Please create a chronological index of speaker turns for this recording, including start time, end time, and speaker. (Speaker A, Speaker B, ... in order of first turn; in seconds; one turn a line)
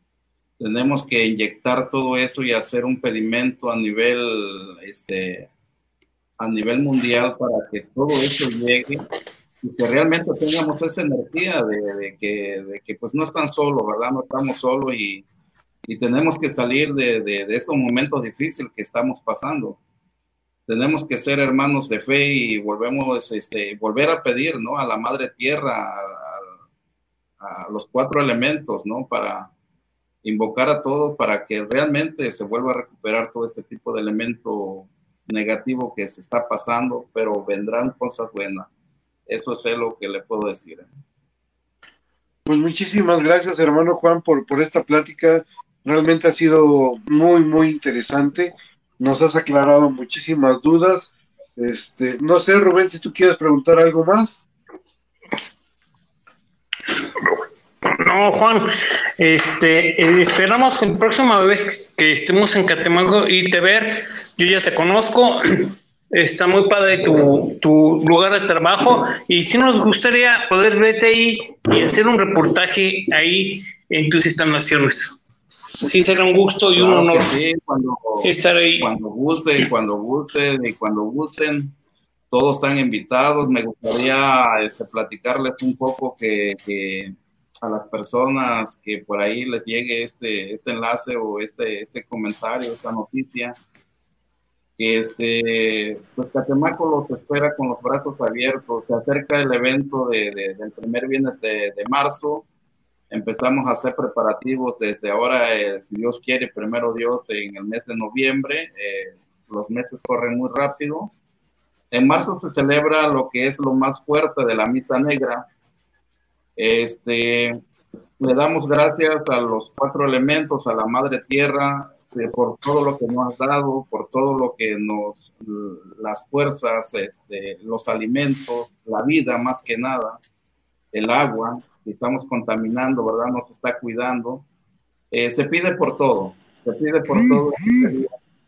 Speaker A: 0.6-5.5
Speaker A: 6.4-9.1
Speaker A: 9.6-15.2
Speaker A: 15.9-19.8
Speaker A: 20.7-26.5
Speaker A: 27.4-29.5
Speaker A: 30.2-38.7
Speaker A: 39.3-40.9
Speaker B: 42.5-54.4
Speaker C: 57.8-58.6
Speaker C: 59.2-75.2
Speaker C: 75.8-77.3
Speaker A: 76.8-81.7
Speaker C: 78.2-78.9
Speaker A: 82.3-93.6
Speaker A: 94.8-102.5
Speaker A: 103.1-111.1
Speaker A: 111.9-115.4
Speaker A: 116.6-117.6
Speaker A: 118.2-130.2
Speaker A: 130.9-134.4
Speaker A: 135.1-138.1